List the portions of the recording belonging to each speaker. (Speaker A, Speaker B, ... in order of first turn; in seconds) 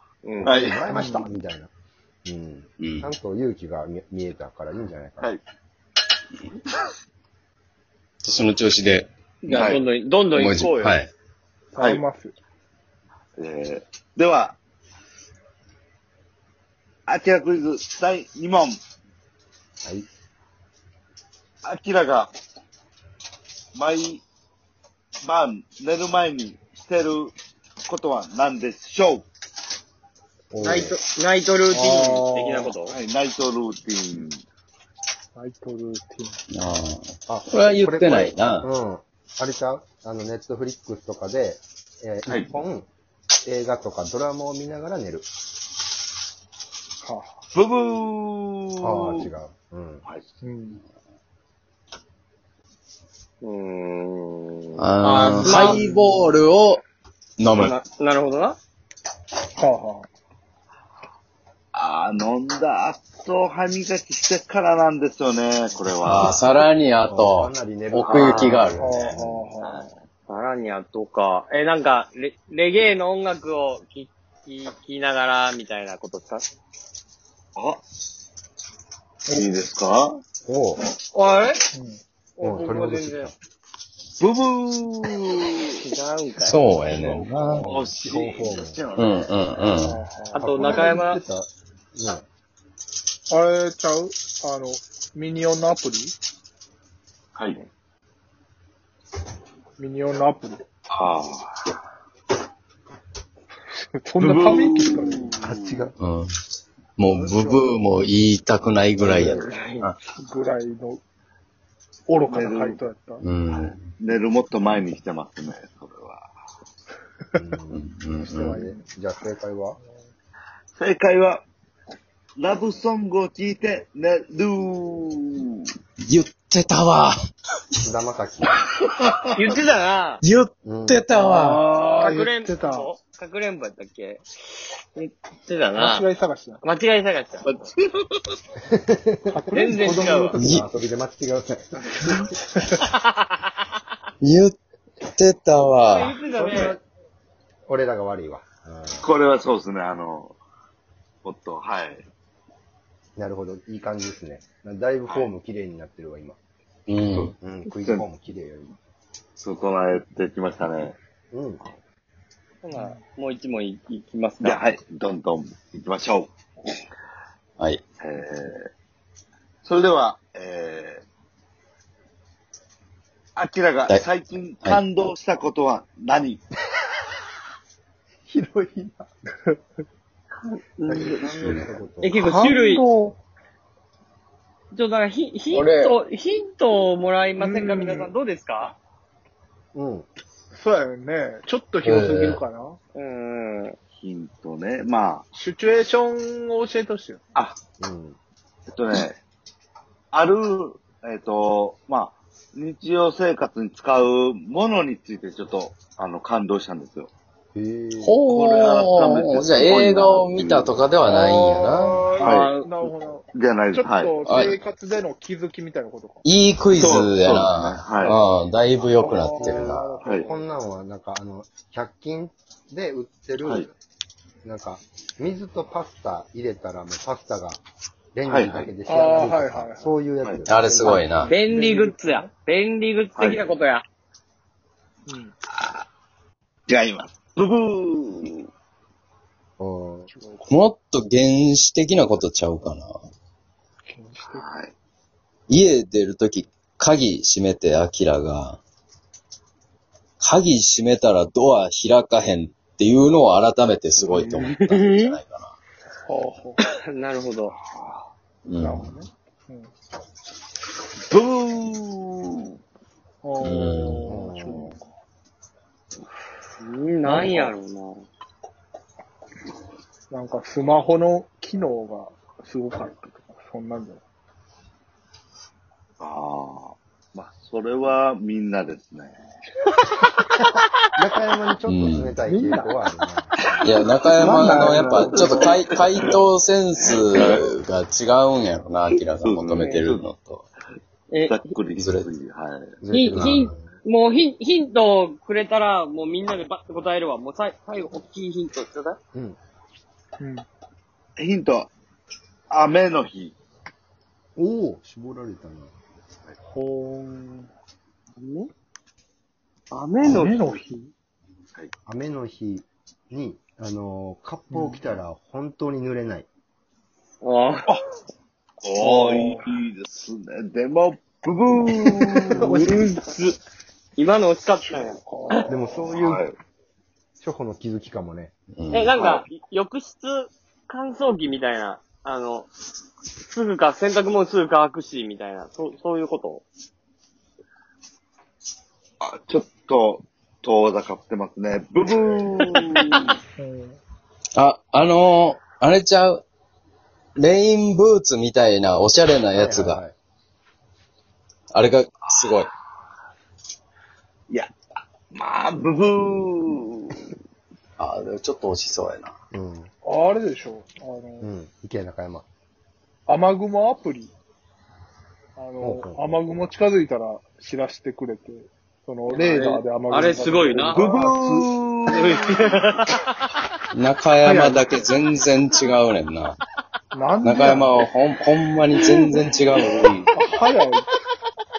Speaker A: 0.2-0.5, 9.4-11.0, 30.6-32.9, 53.4-55.8, 57.5-58.6, 68.1-68.6, 70.3-76.4, 81.1-81.6, 82.4-83.3, 85.8-86.6, 90.3-91.2, 109.5-109.9, 129.3-130.2, 131.9-134.2, 134.9-136.0, 136.6-137.5, 139.5-140.3, 142.8-143.1, 145.8-146.8, 162.6-164.6, 180.4-181.3, 182.0-182.8, 184.7-188.8, 192.9-193.8, 212.2-212.8, 231.3-233.8, 254.1-255.2, 256.8-257.6, 266.6-268.0, 289.6-289.9, 291.1-291.5, 292.9-299.0, 308.2-308.5, 309.7-310.6, 317.2-317.7, 322.4-323.4, 324.0-325.4, 328.7-332.5, 333.2-336.4, 369.1-370.9, 371.9-373.1
Speaker B: 0.4-1.7, 2.2-5.3, 30.5-31.0, 37.3-42.9, 43.4-45.3, 48.8-50.0, 66.1-69.4, 80.5-80.8, 82.4-83.3, 87.6-88.8, 90.4-92.3, 105.4-105.9, 107.1-107.7, 109.0-109.5, 117.4-119.8, 127.8-128.6, 130.7-131.0, 138.7-142.2, 146.3-146.8, 147.7-149.1, 153.2-156.4, 157.4-158.8, 161.3-161.6, 178.3-179.1, 180.9-182.2, 189.7-190.1, 197.8-198.2, 207.6-208.2, 219.4-223.7, 224.4-227.6, 228.1-231.2, 239.6-240.1, 264.1-264.7, 281.0-285.3, 292.8-293.7, 304.4-305.7, 311.9-316.3, 322.4-322.9, 325.5-326.3, 327.2-328.3, 349.3-349.9, 359.3-359.7, 361.2-362.3, 365.6-366.4
Speaker C: 0.4-0.8, 9.5-9.8, 11.8-12.0, 13.4-14.6, 17.1-18.8, 21.6-22.3, 23.8-24.2, 25.2-27.3, 27.9-29.3, 32.9-34.4, 42.3-42.5, 47.5-49.2, 50.0-50.3, 61.7-66.4, 69.6-69.9, 77.6-77.8, 79.3-80.2, 84.2-85.8, 87.7-89.7, 97.4-97.6, 100.9-101.5, 104.2-105.8, 112.3-112.8, 114.0-116.3, 120.8-121.4, 122.4-125.7, 128.8-129.2, 137.4-138.3, 149.0-150.4, 151.2-152.0, 157.1-158.1, 159.4-161.0, 164.4-166.3, 168.0-168.7, 169.6-171.0, 173.4-176.4, 194.0-195.3, 198.7-199.2, 200.1-207.1, 208.3-210.9, 212.2-212.5, 213.3-214.2, 216.7-218.2, 220.0-220.3, 228.3-228.8, 233.2-233.5, 235.5-235.9, 236.7-238.5, 244.2-244.7, 257.6-258.1, 261.1-262.5, 276.0-279.2, 285.1-286.1, 286.8-287.4, 289.2-290.1, 291.3-293.3, 301.2-301.7, 302.5-303.3, 318.6-322.6, 325.9-326.4, 329.0-329.2, 339.0-343.1, 355.1-357.1, 370.7-372.4
Speaker D: 0.9-1.3, 11.7-12.3, 31.7-32.8, 35.4-36.4, 47.0-47.3, 50.4-50.8, 55.1-56.4, 59.6-60.1, 68.8-69.9, 81.7-82.0, 89.8-90.5, 93.3-96.2, 99.8-100.6, 104.0-105.4, 110.2-111.0, 112.1-113.2, 118.2-118.8, 131.1-132.9, 135.8-136.6, 139.3-140.2, 162.7-163.0, 182.2-183.2, 187.4-188.1, 190.5-192.8, 195.3-197.2, 211.1-216.2, 218.9-220.5, 228.8-229.9, 231.2-232.3, 235.1-235.3, 240.1-240.6, 243.9-244.5, 256.1-256.6, 258.6-259.7, 263.2-264.9, 267.1-267.5, 270.1-274.0, 282.3-282.7, 284.2-285.5, 300.2-300.5, 306.5-307.5, 310.0-310.9, 314.5-314.9, 318.8-319.5, 325.0-325.8, 343.4-343.8, 359.8-361.3, 363.1-364.1, 365.4-371.5, 374.2-374.8, 376.9-377.9, 380.1-380.9
Speaker E: 2.8-3.1, 8.2-9.1, 10.3-11.1, 36.5-38.6, 54.8-56.8, 57.4-57.8, 66.0-69.1, 86.4-87.7, 89.0-90.0, 106.0-106.3, 107.0-110.0, 113.2-113.9, 117.7-118.6, 126.1-127.2, 130.2-131.6, 140.4-140.6, 144.2-146.1, 156.9-157.3, 181.4-181.7, 185.5-185.9, 191.8-192.4, 208.0-212.1, 214.2-214.6, 216.2-220.0, 230.5-231.3, 240.5-243.0, 245.5-248.6, 250.2-255.6, 258.5-258.9, 263.4-264.2, 281.7-282.2, 283.6-290.5, 291.8-292.1, 328.6-329.0, 344.4-346.2, 347.2-349.8, 351.5-352.5, 357.8-359.1, 373.7-376.4, 377.2-380.1